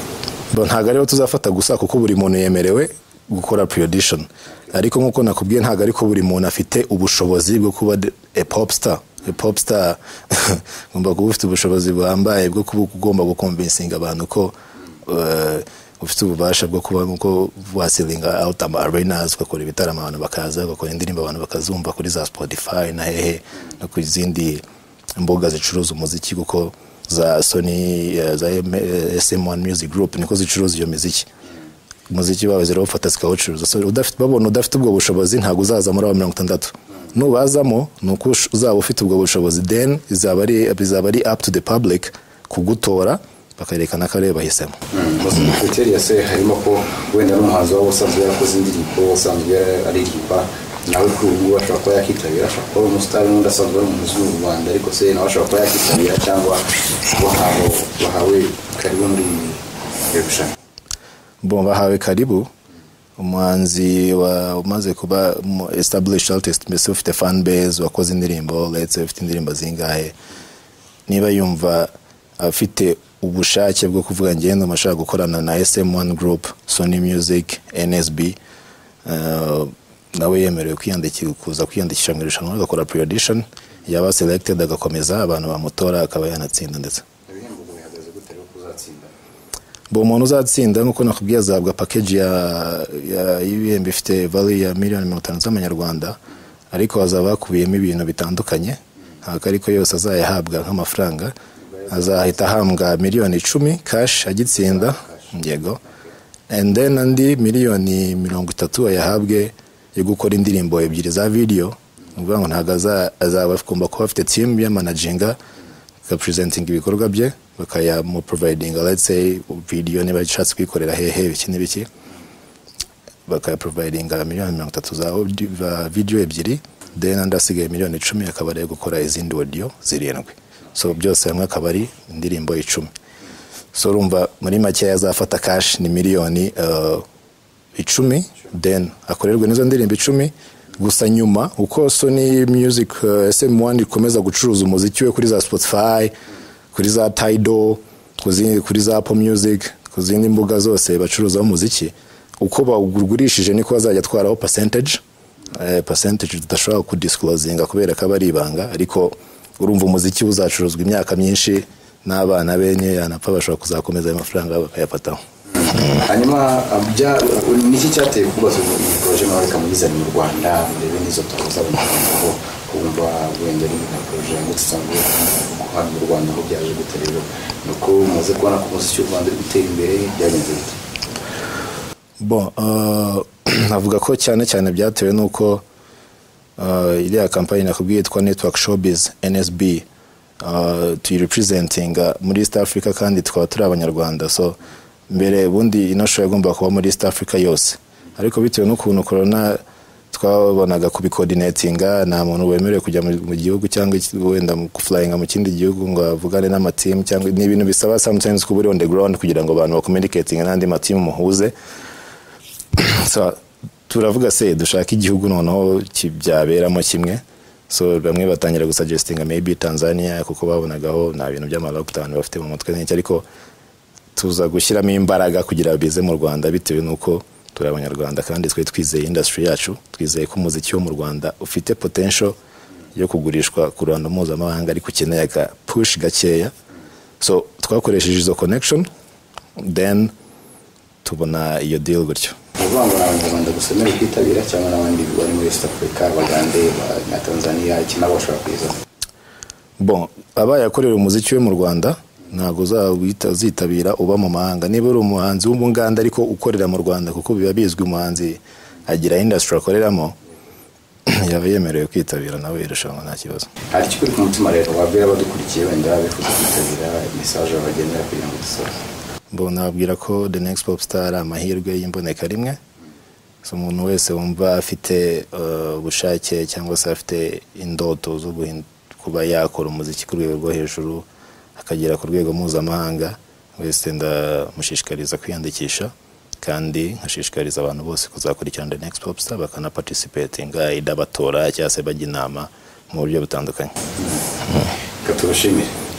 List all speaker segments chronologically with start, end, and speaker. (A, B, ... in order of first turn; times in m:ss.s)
0:00.5-0:14.5 A
0:15.0-0:24.6 A
0:25.2-0:31.3 A
0:32.1-0:44.8 A
0:44.9-1:00.5 B
1:01.4-1:02.5 A
1:03.2-1:10.1 A
1:11.1-1:18.4 A
1:19.0-1:27.0 A
1:27.3-1:29.1 B
1:29.9-1:36.2 A
1:36.7-1:41.3 A
1:41.7-1:42.3 B
1:41.9-1:45.8 A
1:44.6-1:45.2 B
1:46.5-1:55.4 A
1:56.0-2:01.9 A
2:03.3-2:12.9 A
2:13.7-2:17.0 A
2:17.8-2:26.1 A
2:26.7-2:45.2 A
2:45.5-3:00.8 B
3:02.2-3:05.6 A
3:06.6-3:09.8 A
3:10.4-3:14.6 A
3:15.1-3:19.6 A
3:20.1-3:31.5 A
3:32.7-3:43.2 A
3:44.2-3:52.4 A
3:52.9-3:56.5 A
3:57.2-3:58.9 A
3:59.6-4:00.1 A
4:01.0-4:02.4 A
4:02.6-4:08.8 B
4:09.8-4:20.2 A
4:21.1-4:23.5 A
4:23.7-4:28.7 B
4:29.3-4:32.6 A
4:33.4-4:41.0 A
4:41.6-4:53.7 A
4:55.0-4:55.7 B